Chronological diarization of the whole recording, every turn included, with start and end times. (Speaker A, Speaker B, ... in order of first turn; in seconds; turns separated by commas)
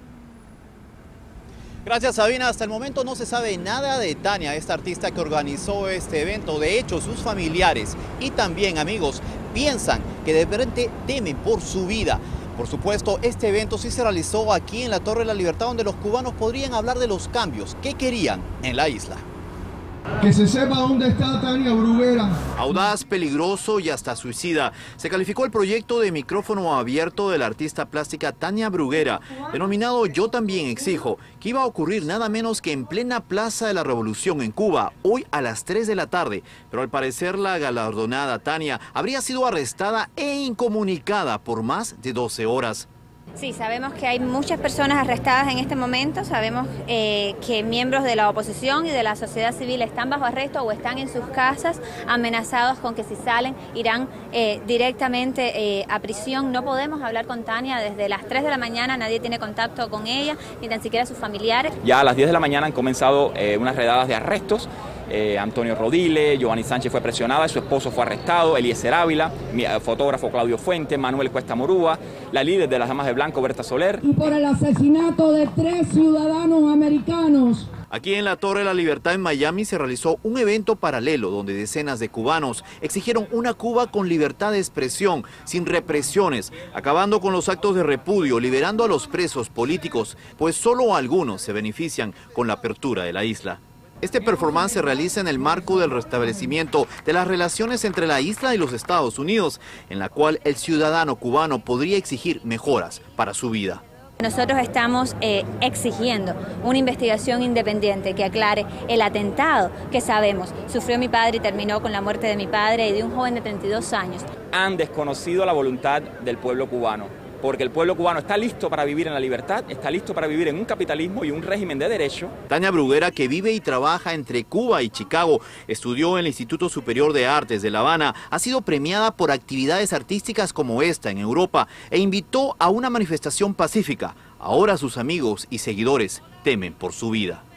Speaker A: 1.9-19.2, Speaker B: 20.2-22.4, Speaker A: 22.6-42.9, Speaker C: 43.4-61.7, Speaker D: 61.8-74.0, Speaker E: 74.0-77.7, Speaker A: 77.9-103.8, Speaker C: 104.2-114.3, Speaker D: 114.5-122.3, Speaker A: 122.5-137.4